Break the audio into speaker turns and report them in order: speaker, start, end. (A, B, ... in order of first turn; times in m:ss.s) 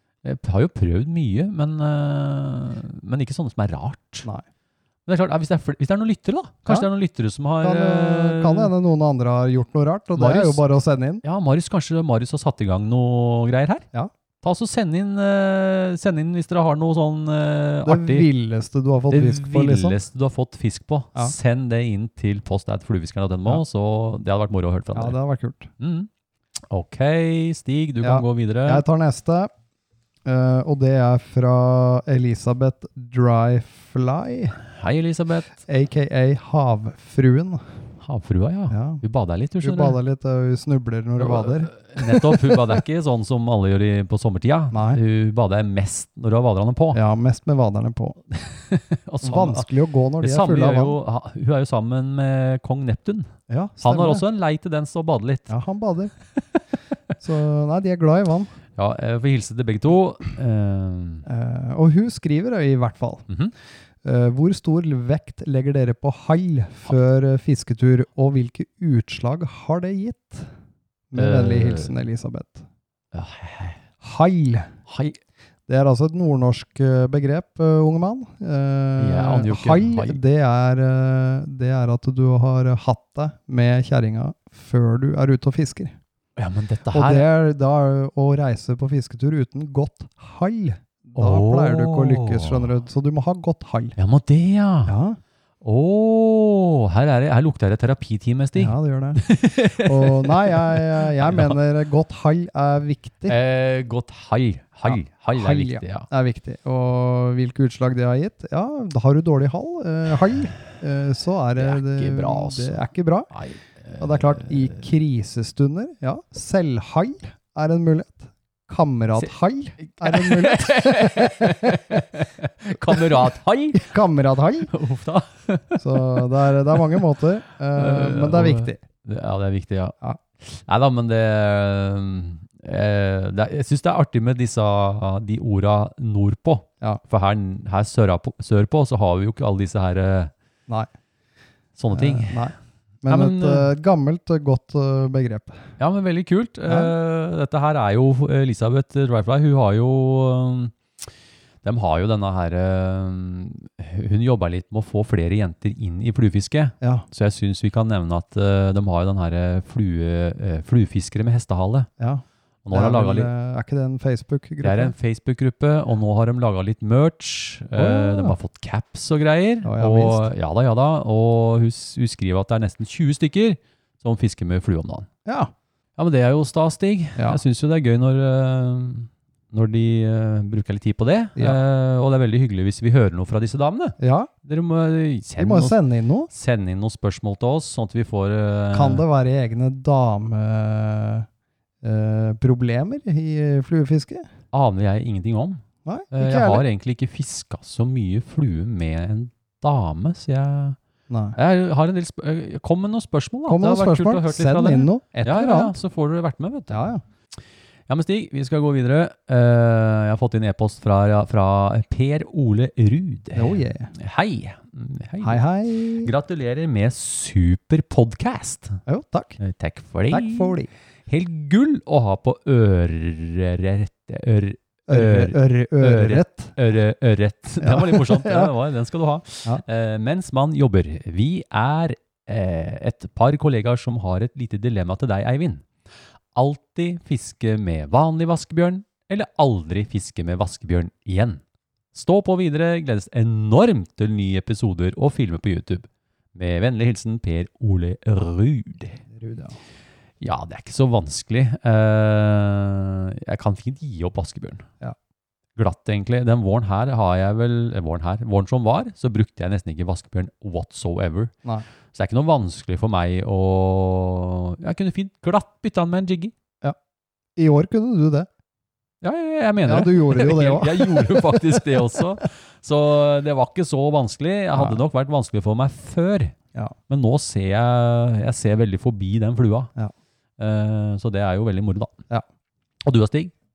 0:00.2-0:04.3 A
0:05.0-0:08.7 A
0:07.6-0:11.2 B
0:10.2-0:10.6 A
0:11.2-0:13.8 A
0:14.4-0:18.3 A
0:17.8-0:20.0 B
0:19.1-0:25.2 A
0:24.9-0:25.7 B
0:25.8-0:26.1 A
0:26.7-0:28.8 A
0:28.0-0:29.5 B
0:30.2-0:34.6 B
0:34.6-0:35.5 A
0:35.6-0:37.6 B
0:38.0-0:40.0 A
0:38.7-0:39.0 B
0:39.6-0:42.6 B
0:41.2-0:47.0 A
0:44.7-0:45.0 B
0:46.9-0:48.2 B
0:48.3-0:49.7 A
0:49.2-0:51.0 B
0:50.2-0:55.5 A
0:53.5-0:54.2 B
0:55.5-0:56.1 B
0:57.2-0:58.5 B
0:58.8-1:01.2 A
1:01.2-1:03.2 B
1:04.0-1:10.5 B
1:11.1-1:12.6 B
1:11.2-1:11.9 A
1:13.1-1:13.8 A
1:14.0-1:14.7 B
1:14.9-1:15.2 A
1:15.7-1:26.0 B
1:19.0-1:20.2 A
1:26.4-1:27.3 A
1:26.9-1:34.0 B
1:31.2-1:32.7 A
1:34.0-1:34.9 A
1:34.8-1:35.2 B
1:35.6-1:41.6 A
1:38.6-1:39.2 B
1:39.8-1:43.4 B
1:43.3-1:46.1 A
1:44.8-1:53.3 B
1:51.6-1:54.8 A
1:54.0-2:02.0 B
1:59.8-2:03.9 A
2:02.9-2:03.2 B
2:03.7-2:04.7 B
2:04.7-2:06.3 A
2:05.8-2:08.8 B
2:07.7-2:20.3 A
2:21.8-2:22.5 A
2:21.9-2:25.6 B
2:23.1-2:23.7 A
2:25.8-2:30.8 A
2:26.7-2:26.9 B
2:31.6-2:41.9 A
2:42.0-2:44.9 B
2:42.6-2:43.3 A
2:44.6-2:55.1 A
2:47.7-2:48.4 B
2:49.6-2:50.3 B
2:55.2-2:55.5 B
2:56.0-3:09.0 A
3:04.0-3:04.3 B
3:05.4-3:06.3 B
3:08.7-3:11.3 B
3:11.8-3:14.3 B
3:14.5-3:20.8 A
3:15.8-3:16.6 B
3:21.1-3:21.4 B
3:21.3-3:38.8 A
3:23.5-3:25.7 B
3:26.7-3:27.0 B
3:33.3-3:33.9 B
3:35.2-3:36.1 B
3:38.9-3:39.4 B
3:39.4-3:55.6 A
3:40.1-3:40.7 B
3:44.9-3:46.5 B
3:47.6-3:48.5 B
3:56.3-4:01.4 A
4:01.9-4:09.0 A
4:09.1-4:09.6 B
4:10.2-4:14.7 A
4:15.6-4:21.3 A
4:21.9-4:26.3 A
4:27.4-4:28.3 B
4:29.0-4:36.4 A
4:29.6-4:31.6 B
4:34.5-4:34.8 B
4:36.9-4:39.7 A
4:40.4-4:41.9 A
4:42.8-4:43.3 A